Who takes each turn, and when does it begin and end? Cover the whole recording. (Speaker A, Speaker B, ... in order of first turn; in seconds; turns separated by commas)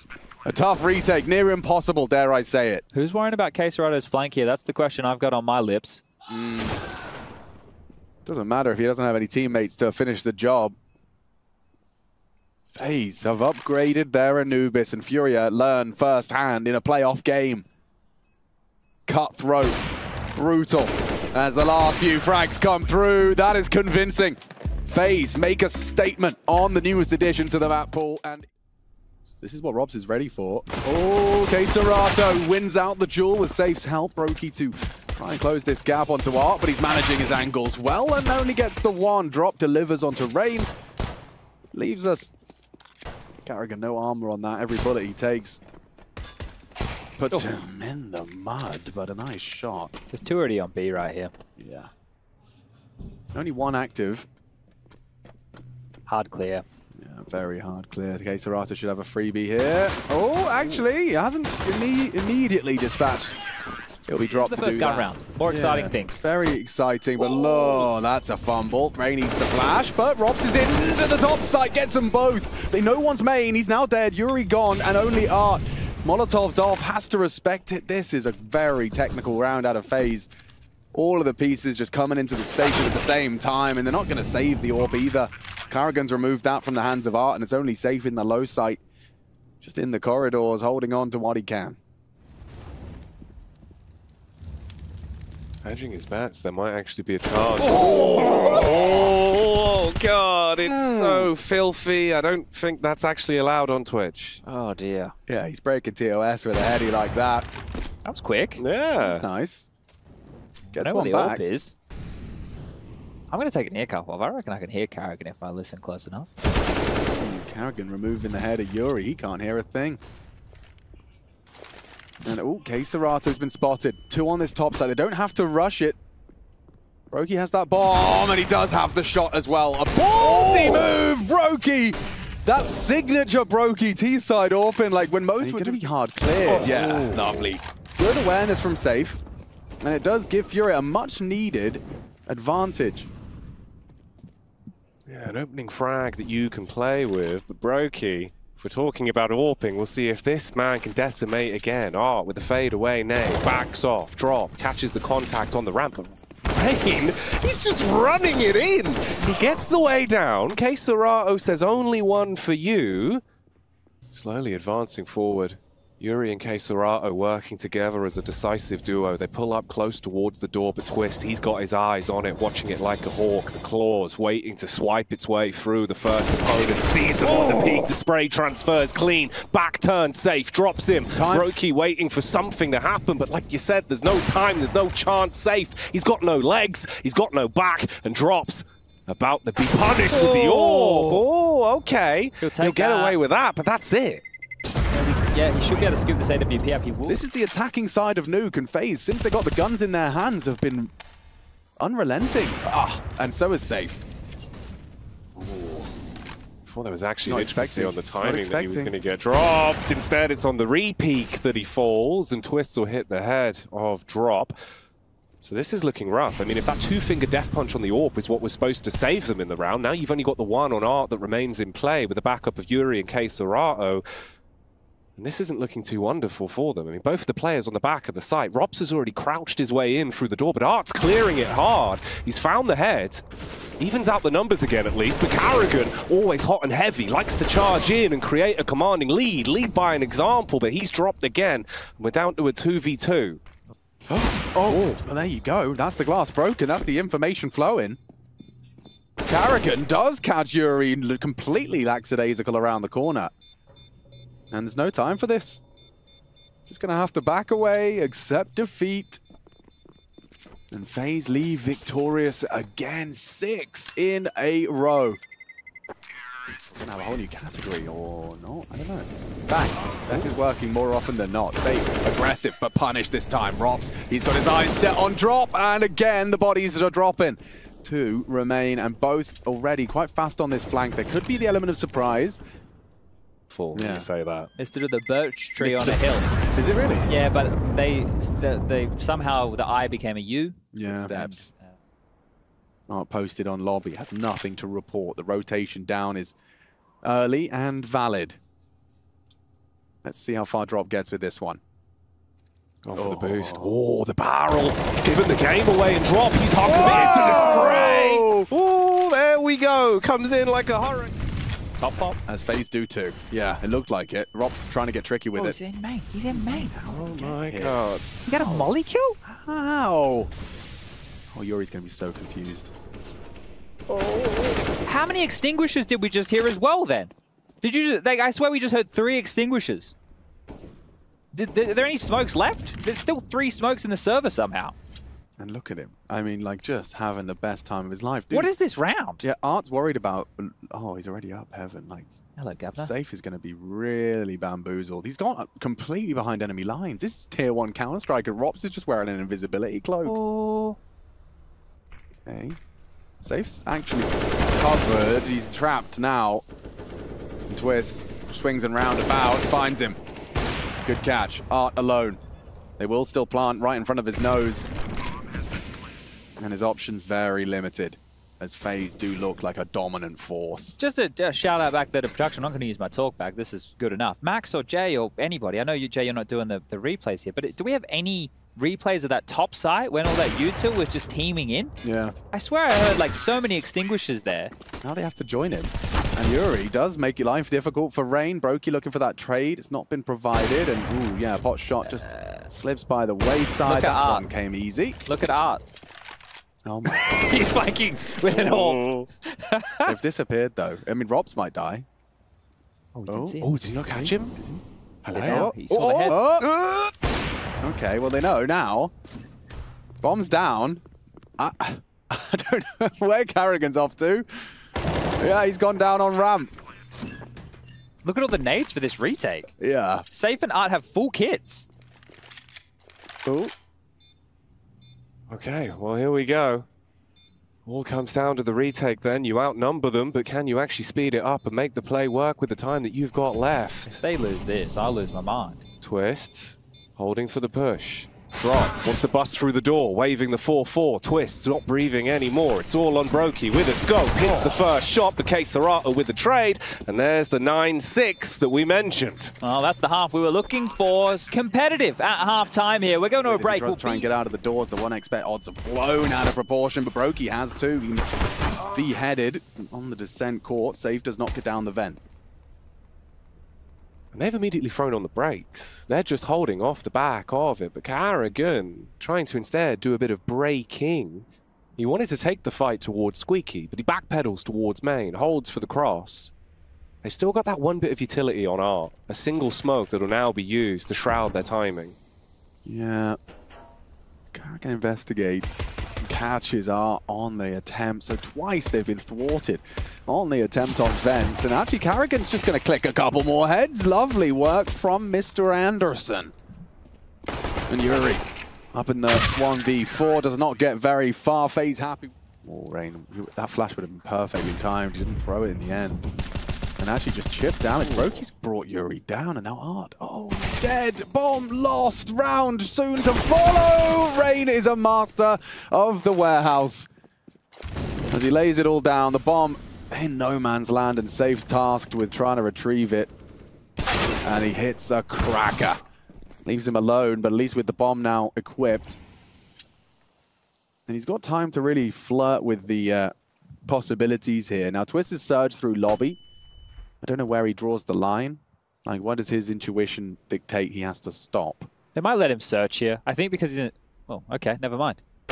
Speaker A: 0.4-2.8, Speaker B: 2.9-6.0, Speaker A: 6.3-6.8, Speaker A: 8.2-10.8, Speaker A: 12.7-17.6, Speaker A: 19.1-19.8, Speaker A: 20.3-28.5, Speaker A: 29.4-40.7, Speaker A: 41.7-42.3, Speaker A: 43.4-45.6, Speaker A: 47.2-50.0, Speaker B: 50.1-51.3, Speaker A: 51.6-51.9, Speaker A: 53.3-54.3, Speaker B: 56.1-56.6, Speaker A: 56.9-63.4, Speaker A: 64.0-80.3, Speaker B: 64.3-66.2, Speaker A: 80.9-88.8, Speaker A: 89.6-91.8, Speaker C: 95.6-104.4, Speaker A: 97.6-99.1, Speaker A: 100.6-101.3, Speaker B: 104.4-105.1, Speaker A: 105.3-107.5, Speaker B: 108.0-108.6, Speaker C: 108.6-109.2, Speaker A: 109.0-109.7, Speaker B: 110.7-111.7, Speaker A: 110.7-111.4, Speaker B: 113.3-116.3, Speaker A: 117.1-120.0, Speaker A: 122.2-126.0, Speaker A: 127.1-139.2, Speaker C: 130.2-130.9, Speaker C: 135.4-135.8, Speaker C: 136.5-137.5, Speaker A: 139.8-143.1, Speaker C: 145.1-163.2, Speaker C: 164.1-194.2, Speaker A: 181.1-181.5, Speaker B: 190.1-191.2, Speaker B: 192.4-193.2, Speaker B: 194.9-197.2, Speaker A: 197.1-200.9, Speaker A: 201.8-204.0, Speaker A: 205.4-205.9, Speaker C: 206.7-214.5, Speaker A: 207.2-208.9, Speaker C: 215.4-224.0, Speaker C: 225.2-233.2, Speaker C: 233.8-243.4, Speaker A: 244.1-248.0, Speaker C: 244.7-245.0, Speaker A: 249.2-253.3, Speaker A: 254.5-255.6, Speaker A: 256.6-259.2, Speaker A: 260.7-265.2, Speaker A: 266.6-282.4, Speaker C: 283.5-284.5, Speaker A: 283.7-284.1, Speaker B: 284.6-286.3, Speaker A: 285.6-287.1, Speaker B: 287.1-291.7, Speaker A: 290.7-291.5, Speaker A: 292.9-296.3, Speaker A: 297.0-298.4, Speaker A: 300.0-301.6, Speaker C: 302.8-311.1, Speaker A: 302.9-303.7, Speaker A: 306.6-308.5, Speaker B: 311.8-312.2, Speaker A: 312.2-315.6, Speaker B: 315.4-316.7, Speaker A: 316.3-317.8, Speaker C: 316.9-318.2, Speaker B: 318.3-319.2, Speaker A: 318.4-318.7, Speaker A: 319.2-320.3, Speaker A: 321.3-322.7, Speaker B: 323.9-329.9, Speaker B: 331.3-334.7, Speaker A: 335.4-338.5, Speaker B: 338.3-339.2, Speaker A: 339.2-342.1, Speaker B: 342.4-342.9, Speaker A: 342.8-350.1, Speaker B: 350.0-350.8, Speaker A: 352.2-352.6, Speaker A: 353.2-356.4, Speaker A: 357.5-360.0, Speaker A: 360.8-362.2, Speaker A: 362.8-364.6, Speaker A: 366.4-370.8, Speaker B: 370.8-381.7, Speaker A: 381.8-382.1, Speaker B: 382.3-384.5, Speaker A: 384.8-395.0, Speaker B: 392.0-392.5, Speaker B: 393.6-394.3, Speaker B: 395.1-395.6, Speaker A: 396.6-397.3, Speaker B: 396.9-399.9, Speaker C: 398.3-399.0, Speaker A: 399.9-401.9, Speaker B: 402.9-403.5, Speaker A: 403.1-406.5, Speaker C: 403.4-404.4, Speaker C: 405.1-406.9, Speaker B: 405.1-406.2, Speaker A: 407.6-408.9, Speaker A: 410.0-410.8, Speaker A: 411.4-414.2, Speaker A: 415.2-416.5, Speaker B: 418.0-419.5, Speaker A: 419.6-420.1, Speaker B: 420.1-421.7, Speaker A: 423.2-423.5, Speaker C: 425.3-426.6, Speaker C: 427.6-434.0, Speaker B: 433.9-435.6, Speaker C: 435.8-449.3, Speaker B: 449.4-454.1, Speaker A: 453.2-458.1, Speaker A: 458.6-462.0, Speaker C: 464.1-476.3, Speaker C: 477.0-482.0, Speaker A: 482.6-483.2, Speaker A: 484.3-496.3, Speaker A: 497.7-506.1, Speaker A: 506.8-516.9, Speaker A: 518.1-523.1, Speaker A: 524.2-525.8, Speaker A: 526.4-529.0, Speaker A: 530.9-533.1, Speaker A: 533.6-536.2, Speaker A: 537.0-541.7, Speaker B: 541.9-545.0